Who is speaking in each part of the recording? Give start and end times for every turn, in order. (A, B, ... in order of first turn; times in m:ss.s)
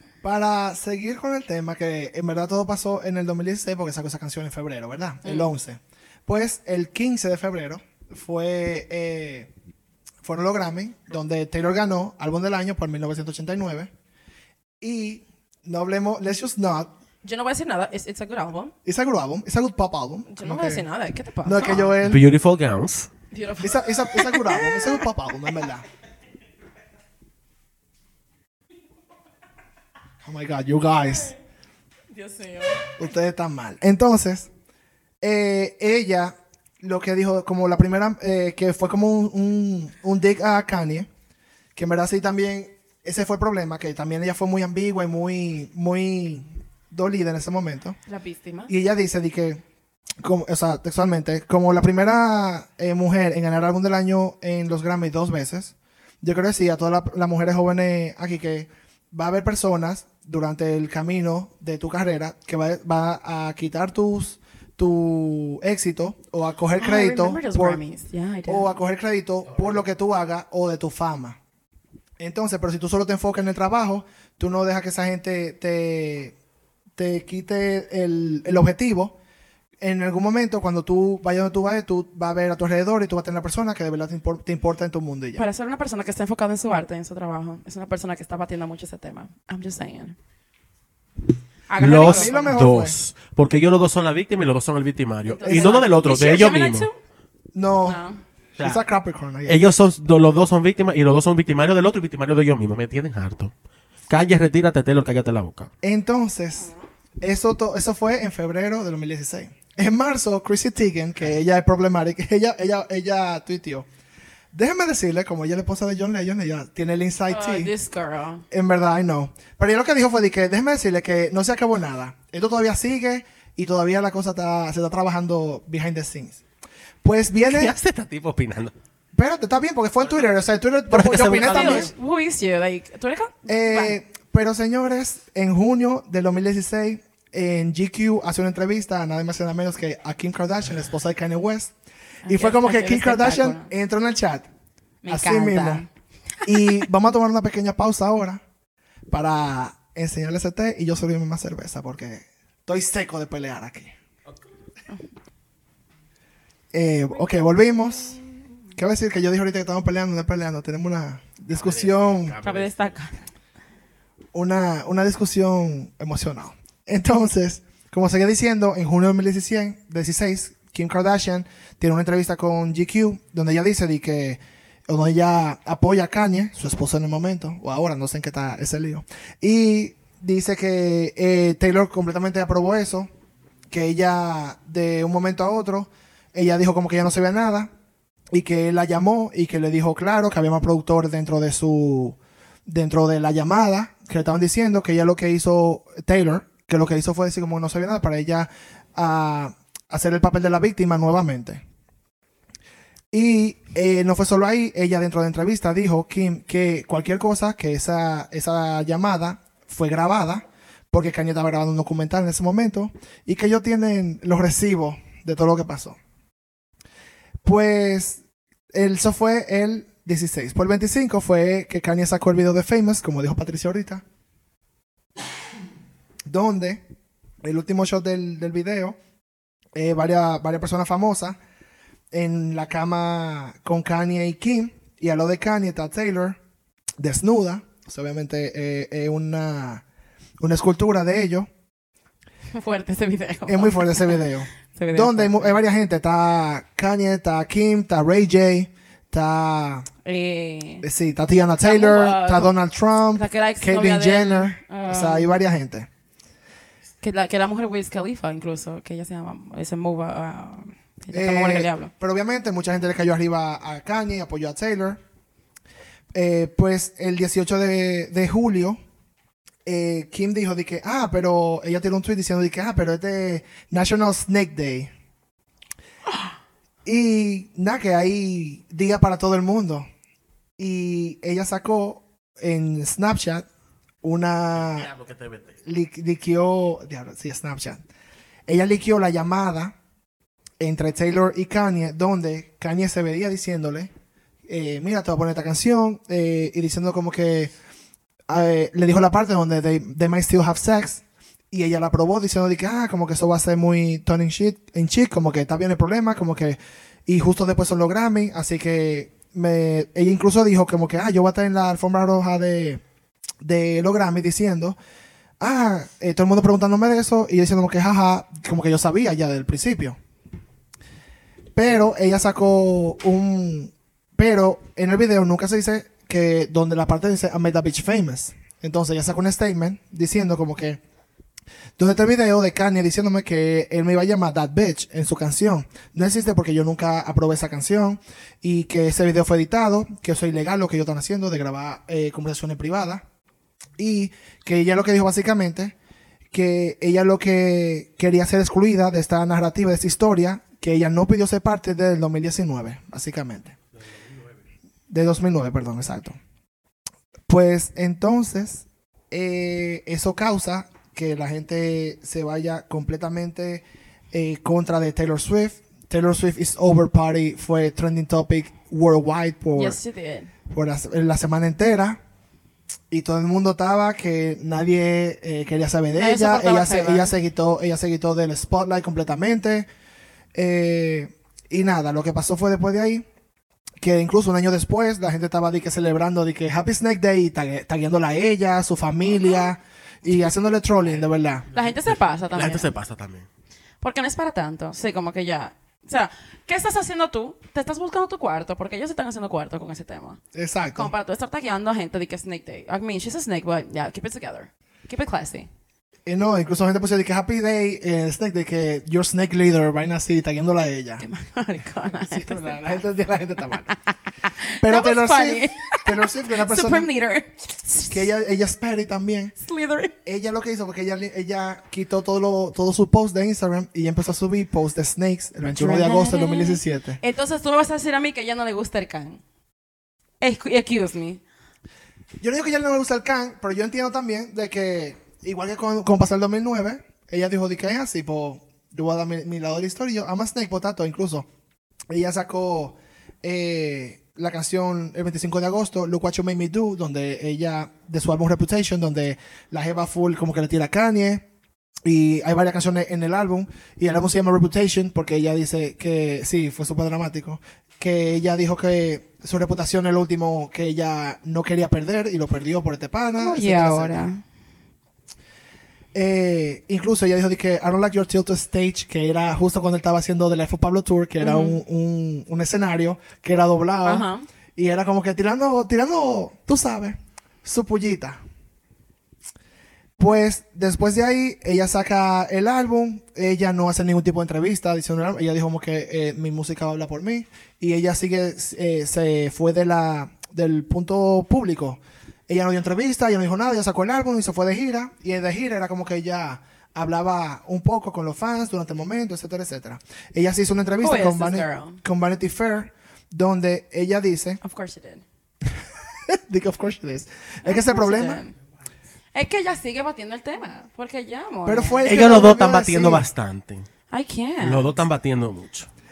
0:00.2-0:09.5 A
0:05.2-0:05.5 B
0:10.2-0:13.9 A
0:14.8-0:16.9 A
0:17.2-0:18.7 B
0:18.8-0:20.8 A
0:20.3-0:21.9 B
0:21.4-0:22.2 A
0:22.0-0:23.1 C
0:23.3-0:25.0 B
0:23.6-0:25.8 A
0:30.2-0:31.3 A
0:32.1-0:32.9 B
0:33.0-0:34.5 A
0:35.2-0:41.1 A
0:41.7-0:48.0 A
0:48.0-0:48.7 B
0:48.7-0:49.6 A
0:50.2-1:07.8 A
1:06.8-1:08.8 B
1:08.5-1:11.4 A
1:12.2-1:16.3 A
1:17.0-1:19.2 A
1:19.8-1:25.4 A
1:25.4-1:30.2 B
1:31.7-1:32.6 B
1:31.8-1:36.9 C
1:31.8-1:33.0 A
1:35.3-1:36.9 B
1:35.4-1:35.8 A
1:37.5-1:38.0 A
1:37.8-1:38.2 B
1:38.6-1:38.8 C
1:38.6-1:39.7 A
1:39.4-1:43.5 C
1:44.1-1:45.7 C
1:45.8-1:53.8 A
1:54.5-1:57.7 A
1:57.3-1:58.4 B
1:58.5-2:06.4 A
2:07.0-2:07.7 A
2:07.4-2:08.7 C
2:09.1-2:11.9 A
2:10.9-2:11.9 C
2:10.9-2:14.0 B
2:13.5-2:21.7 A
2:22.2-2:23.7 B
2:22.3-2:24.5 A
2:25.0-2:25.9 B
2:25.1-2:25.8 A
2:26.4-2:28.4 A
2:26.5-2:26.8 B
2:29.1-2:33.9 A
2:36.7-2:38.2 A
2:38.7-2:42.4 A
2:41.5-2:42.9 C
2:42.4-2:43.3 B
2:44.3-3:03.1 A
3:03.7-3:07.7 A
3:08.3-3:21.6 A
3:23.1-3:36.0 A
3:37.4-3:38.2 A
3:38.7-3:44.0 A
3:46.2-3:46.8 A
3:47.4-3:49.0 A
3:49.7-3:51.4 A
3:52.1-3:56.4 A
3:57.0-3:59.8 A
4:00.4-4:01.5 A
4:02.5-4:04.2 B
4:03.5-4:09.8 A
4:04.7-4:05.6 B
4:10.0-4:10.8 B
4:10.8-4:15.9 A
4:11.6-4:12.5 B
4:13.2-4:15.3 B
4:17.0-4:21.9 B
4:21.1-4:25.0 A
4:26.1-4:28.8 A
4:29.6-4:34.9 A
4:36.8-4:39.8 A
4:40.6-4:43.4 A
4:44.0-4:44.9 A
4:44.6-4:45.6 C
4:45.6-4:47.8 A
4:48.5-4:49.7 A
4:50.6-4:53.9 A
4:54.5-4:57.5 A
4:58.3-5:12.8 A
5:13.4-5:14.8 A
5:15.4-5:20.0 A
5:21.6-5:30.8 A
5:31.8-5:43.0 A
5:43.8-5:45.7 A
5:46.3-5:53.6 A
5:54.9-5:56.2 A
5:57.3-6:09.8 A
6:09.5-6:10.3 B
6:10.5-6:12.0 A
6:12.9-6:19.6 A
6:15.9-6:17.1 B
6:20.3-6:23.0 A
6:23.8-6:31.4 A
6:31.5-6:32.7 B
6:32.3-6:33.3 C
6:33.8-6:40.2 B
6:40.3-6:40.9 A
6:40.7-6:45.5 B
6:46.0-6:51.0 A
6:51.0-6:52.8 B
6:52.0-6:53.7 A
6:53.6-6:58.1 B
6:54.6-6:56.9 A
6:57.9-6:59.3 A
6:59.4-6:59.9 B
7:00.0-7:07.0 A
7:05.5-7:09.2 B
7:10.2-7:11.2 B
7:12.2-7:21.2 A
7:21.9-7:31.2 A
7:31.8-7:43.9 A
7:43.2-7:44.2 B
7:45.9-7:58.2 A
7:51.2-7:51.6 B
7:53.8-7:54.2 B
8:00.0-8:24.4 A
8:20.8-8:21.8 B
8:24.4-8:25.0 B
8:26.1-8:28.2 A
8:27.4-8:28.3 B
8:29.1-8:31.9 B
8:31.4-8:33.0 A
8:31.8-8:33.6 C
8:33.9-8:34.7 B
8:34.4-8:35.7 C